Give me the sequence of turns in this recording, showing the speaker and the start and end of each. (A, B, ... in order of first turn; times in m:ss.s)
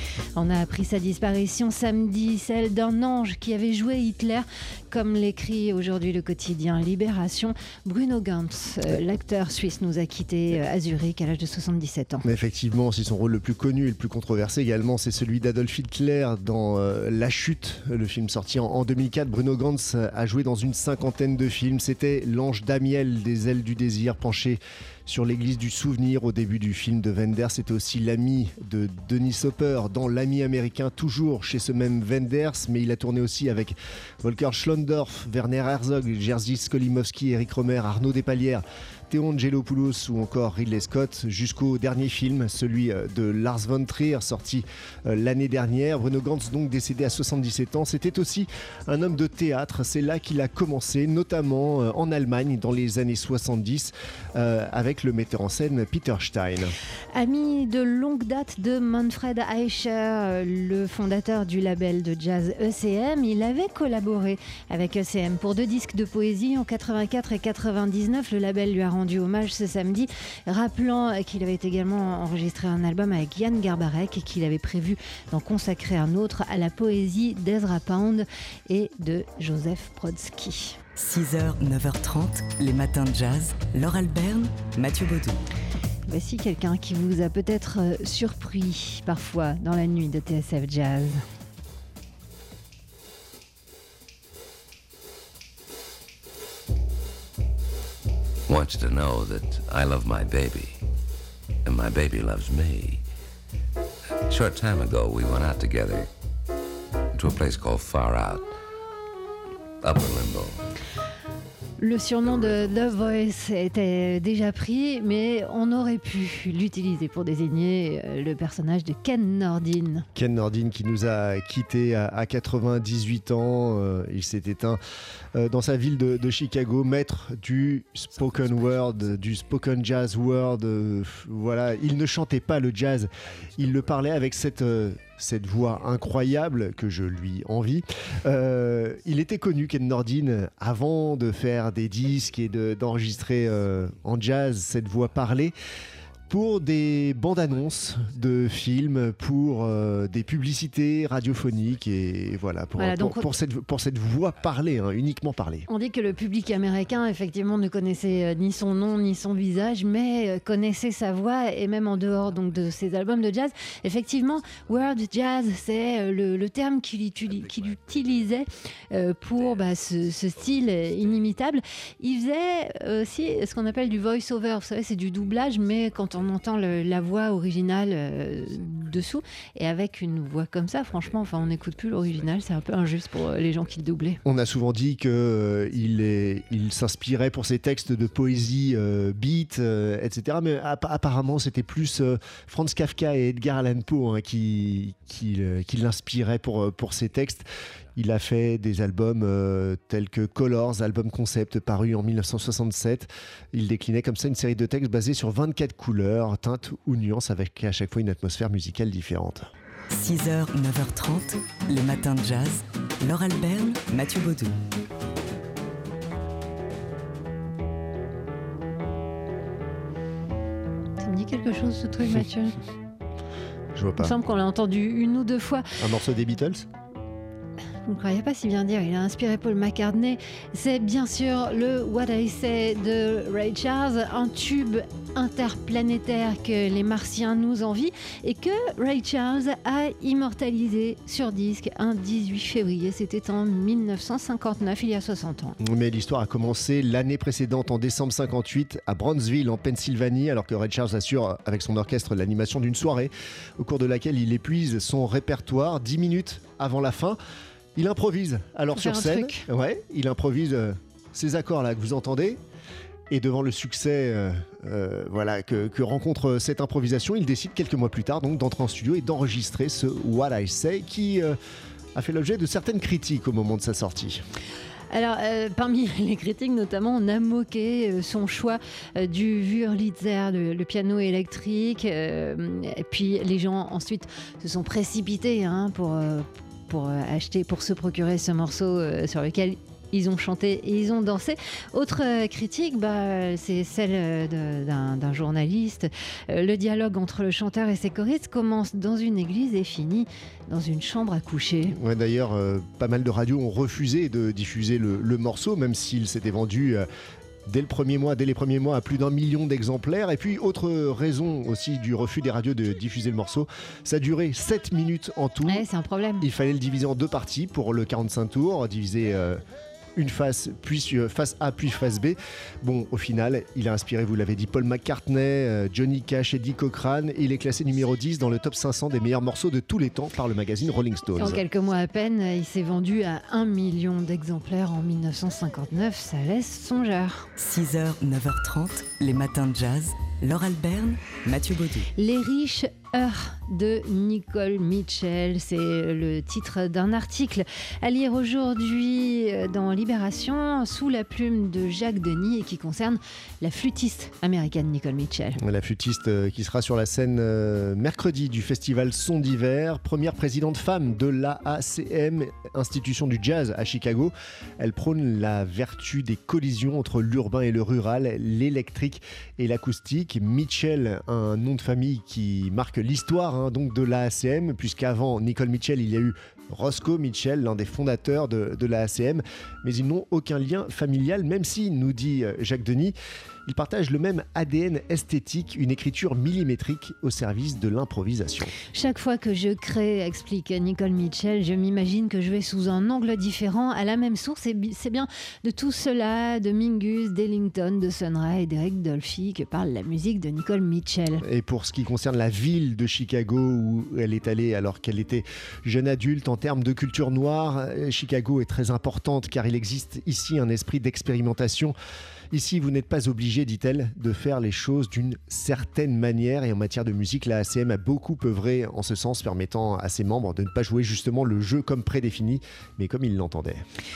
0:00.4-0:12.2 A
0:12.2-0:56.8 B
0:57.1-1:20.8 A
1:21.0-1:25.4 C
1:26.1-1:31.2 A
1:38.5-1:40.8 D
1:41.6-1:43.0 D
1:44.3-1:46.1 D
1:47.1-1:48.5 D
1:49.8-1:50.6 D
1:51.8-2:00.1 A
1:52.2-1:53.2 D
2:00.2-2:04.8 B
2:05.4-2:25.5 B
2:08.2-2:09.5 D
2:13.4-2:14.2 D
2:15.6-2:15.9 D
2:23.4-2:24.0 D
2:25.0-2:25.4 D
2:26.3-2:35.7 B
2:27.5-2:28.5 D
2:31.3-2:32.4 D
2:32.8-2:33.3 A
2:34.3-2:34.7 D
2:35.7-3:04.2 A
2:36.1-2:39.5 D
2:41.9-2:42.9 D
2:44.4-2:45.0 D
2:47.2-2:48.4 D
2:49.3-2:51.4 D
2:53.3-2:54.0 D
2:55.2-2:57.0 D
2:58.4-2:59.2 D
3:00.9-3:03.9 D
3:04.2-3:29.5 B
3:05.7-3:07.1 D
3:08.0-3:08.3 D
3:29.9-3:34.6 C
3:41.0-3:42.6 A
3:43.8-3:44.2 B
3:44.0-3:45.7 A
3:45.8-3:46.7 B
3:47.8-4:05.6 A
4:05.6-4:17.2 B
4:17.8-4:22.4 B
4:18.8-4:19.4 A
4:23.1-4:31.4 B
4:32.0-4:34.2 B
4:34.9-5:01.8 A
5:01.7-5:06.8 B
5:07.5-5:15.6 B
5:15.5-5:16.2 A
5:16.2-5:19.4 B
5:20.0-5:31.4 B
5:31.2-5:37.3 A
5:37.4-5:41.9 C
5:42.0-5:55.4 A
5:55.4-6:22.9 B
6:23.5-6:28.6 B
6:28.7-6:41.2 A
6:41.2-6:51.7 B
6:52.3-7:03.6 B